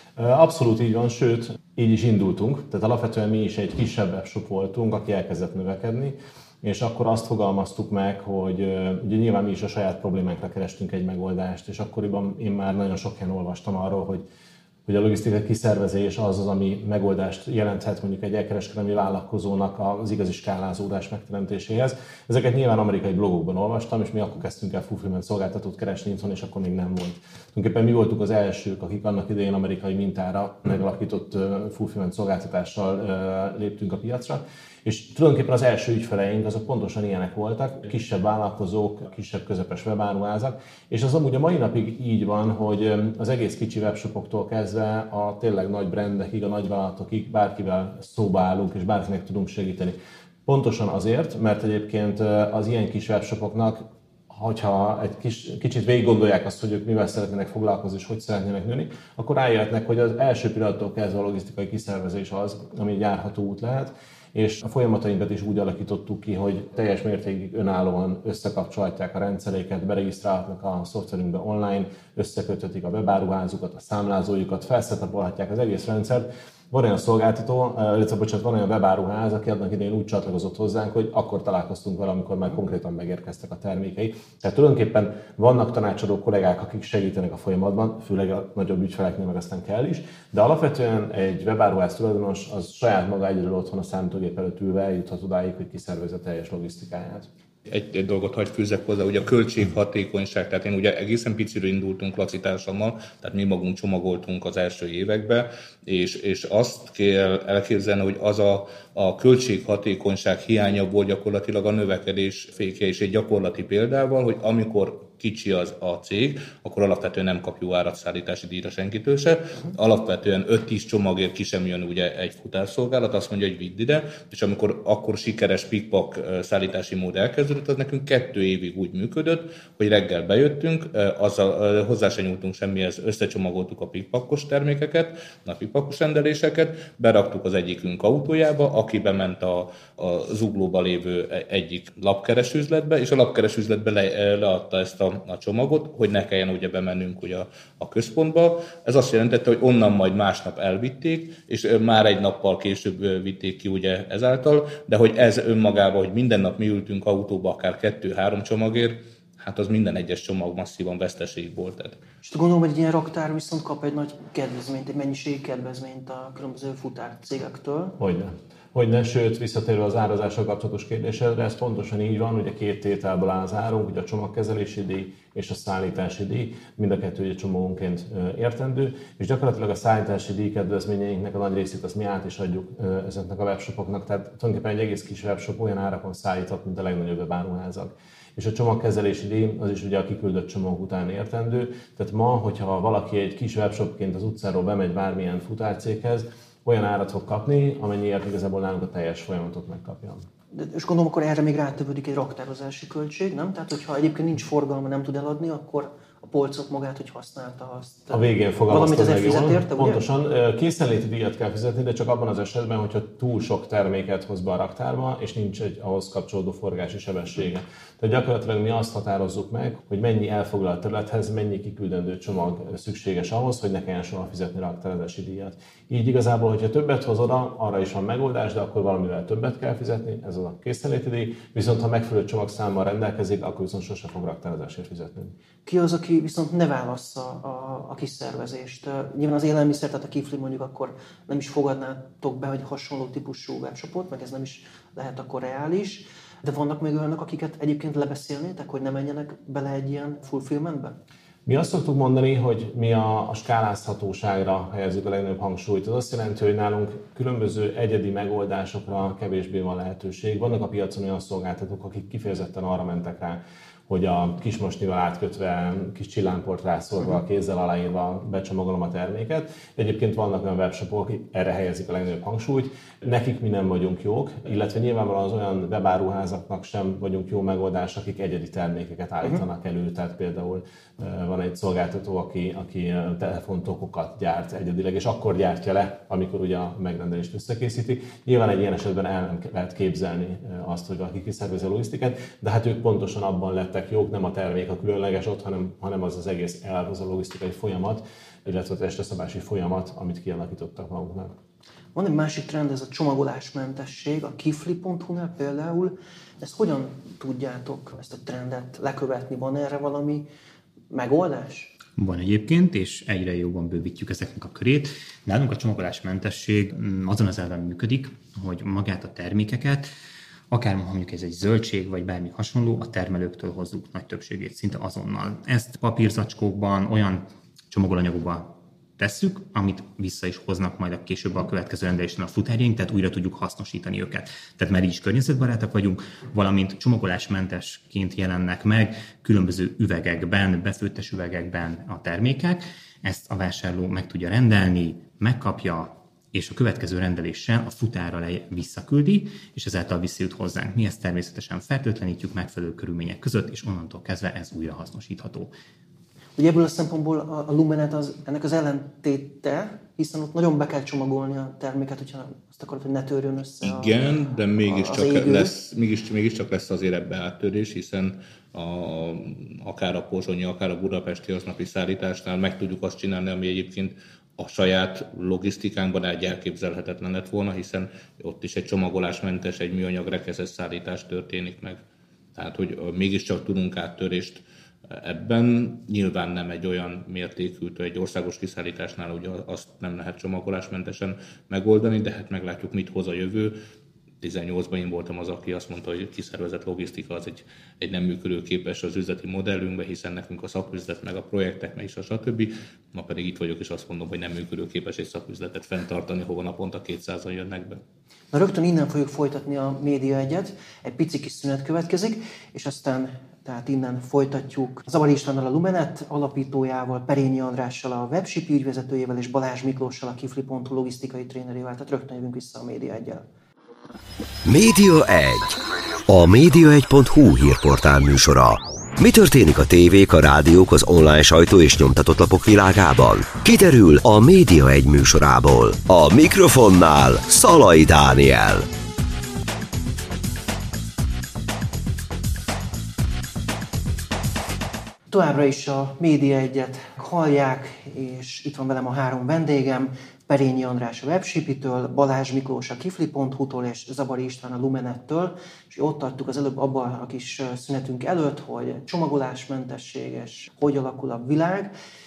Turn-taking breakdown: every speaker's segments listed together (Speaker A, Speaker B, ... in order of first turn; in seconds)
Speaker A: 0.2-14.2, 14.9-97.3, 168.0-200.3, 208.1-235.3, 251.5-301.3
Speaker B: 97.7-162.0, 363.6-381.8, 382.4-393.6, 394.2-407.8
Speaker C: 162.2-168.0, 200.5-210.0, 235.7-251.0, 301.9-310.3, 310.9-311.7, 356.4-364.0, 364.6-365.5, 408.3-423.2, 445.1-461.7
Speaker D: 312.0-319.9, 320.5-355.5
Speaker E: 424.4-438.7